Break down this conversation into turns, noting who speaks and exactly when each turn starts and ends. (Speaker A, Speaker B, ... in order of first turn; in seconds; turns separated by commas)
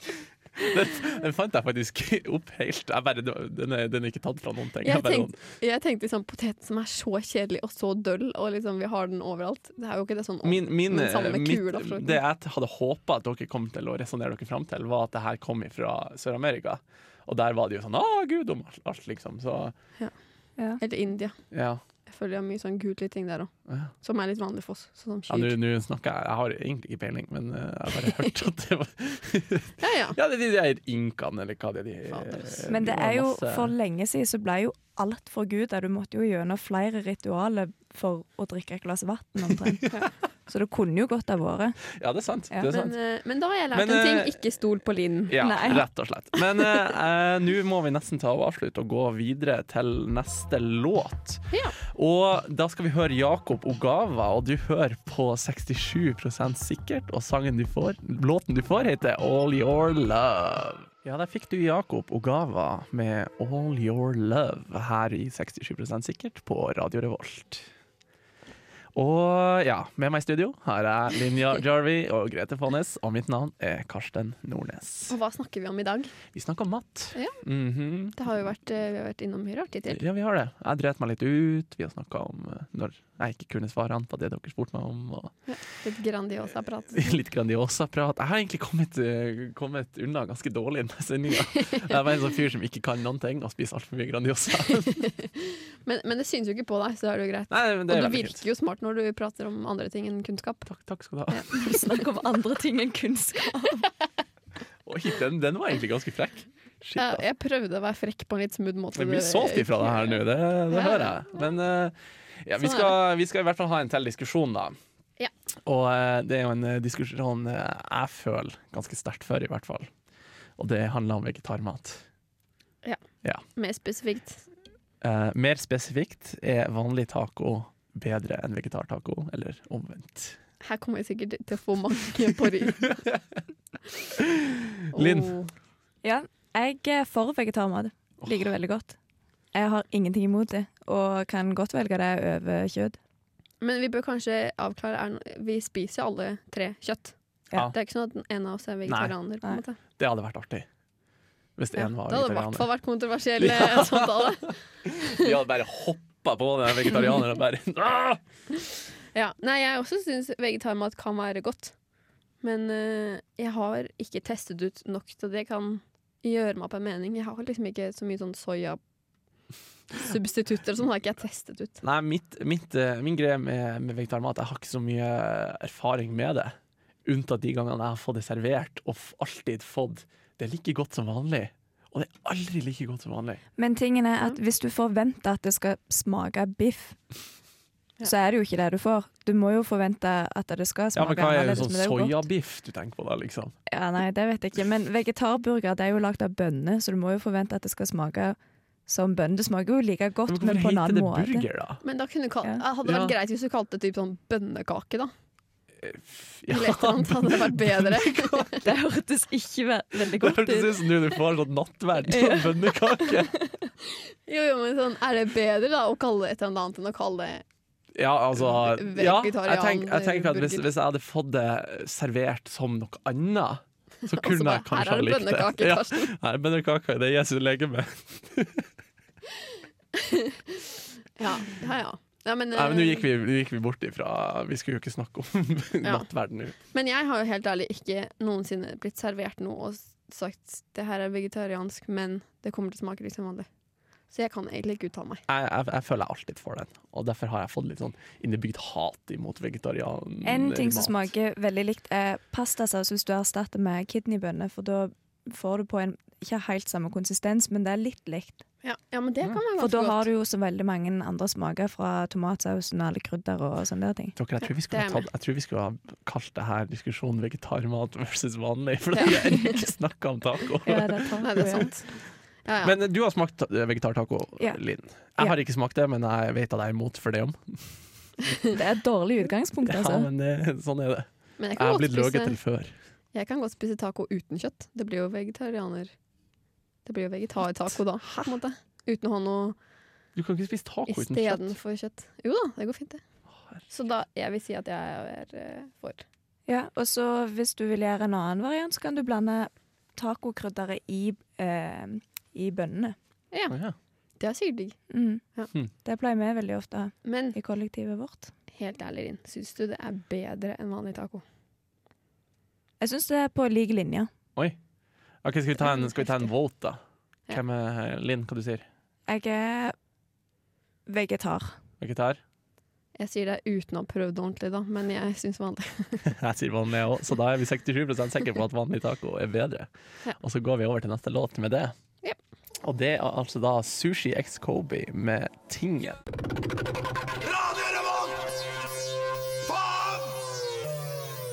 Speaker A: 0.6-5.3, Speaker B: 4.8-12.2, Speaker A: 10.4-19.7, Speaker B: 20.8-21.4, Speaker A: 21.5-21.8, Speaker B: 22.1-25.5, Speaker A: 25.3-33.7, Speaker B: 29.8-30.2, Speaker B: 32.1-32.5, Speaker C: 32.7-39.8, Speaker A: 39.7-40.0, Speaker C: 40.5-41.8, Speaker A: 41.9-42.9, Speaker B: 42.7-45.4, Speaker A: 43.7-44.4, Speaker A: 45.3-67.7, Speaker C: 45.4-45.9, Speaker B: 51.5-51.8, Speaker A: 68.9-75.1, Speaker B: 75.1-76.1, Speaker A: 76.3-78.5, Speaker B: 78.1-80.0, Speaker A: 79.9-85.3, Speaker B: 85.5-87.2, Speaker A: 86.9-95.1, Speaker B: 95.0-100.7, Speaker A: 97.5-98.4, Speaker A: 100.7-101.6, Speaker C: 101.5-103.9, Speaker A: 104.8-107.2, Speaker B: 107.0-110.2, Speaker A: 108.9-114.8, Speaker B: 110.7-111.2, Speaker B: 112.6-113.0, Speaker A: 115.7-119.9, Speaker A: 120.6-122.0, Speaker B: 123.5-124.4, Speaker A: 125.0-130.4, Speaker B: 130.6-133.0, Speaker A: 132.9-133.2, Speaker A: 134.2-135.4, Speaker B: 134.9-135.5, Speaker C: 136.0-138.9, Speaker A: 138.2-138.4, Speaker C: 139.5-143.0, Speaker B: 143.6-147.1, Speaker B: 147.7-149.8, Speaker A: 148.9-149.2, Speaker A: 150.0-150.7, Speaker A: 151.6-152.7, Speaker B: 151.7-155.3, Speaker A: 153.4-158.2, Speaker B: 159.1-161.7, Speaker B: 162.4-168.8, Speaker B: 169.9-171.8, Speaker A: 171.8-183.4, Speaker C: 183.6-187.0, Speaker C: 188.0-192.2, Speaker A: 190.9-193.5, Speaker C: 193.7-201.5, Speaker A: 200.3-201.8, Speaker B: 201.8-205.1, Speaker A: 202.8-203.2, Speaker A: 205.8-208.5, Speaker B: 206.5-208.6, Speaker C: 208.6-210.8, Speaker A: 210.1-213.3, Speaker C: 212.1-213.7, Speaker B: 214.3-217.4, Speaker A: 217.9-228.7, Speaker B: 218.4-220.7, Speaker B: 224.1-226.1, Speaker B: 229.9-230.6, Speaker B: 231.2-233.0, Speaker A: 232.5-236.6, Speaker B: 235.8-236.1, Speaker B: 236.7-243.5, Speaker B: 244.1-245.2, Speaker A: 245.3-251.1, Speaker C: 250.2-258.4, Speaker B: 258.6-260.1, Speaker C: 259.6-264.1, Speaker A: 264.1-271.7, Speaker B: 264.7-265.1, Speaker B: 268.9-269.7, Speaker C: 270.6-271.7, Speaker B: 271.2-272.7, Speaker A: 272.6-277.8, Speaker C: 278.5-280.1, Speaker A: 279.6-282.7, Speaker B: 281.4-282.4, Speaker B: 283.1-285.9, Speaker B: 286.9-289.6, Speaker A: 290.1-291.5, Speaker B: 290.9-293.0, Speaker B: 293.7-296.0, Speaker C: 296.5-302.9, Speaker B: 303.3-303.6, Speaker A: 303.5-303.7, Speaker B: 304.2-304.8, Speaker C: 304.9-305.2, Speaker C: 305.8-308.3, Speaker B: 307.0-307.4, Speaker B: 308.5-311.2, Speaker C: 312.8-314.1, Speaker A: 315.2-318.6, Speaker C: 319.1-319.8, Speaker C: 320.9-321.6, Speaker A: 321.8-322.2, Speaker B: 322.9-326.1, Speaker A: 326.0-329.7, Speaker A: 330.2-331.7, Speaker A: 332.6-336.0, Speaker A: 337.7-338.1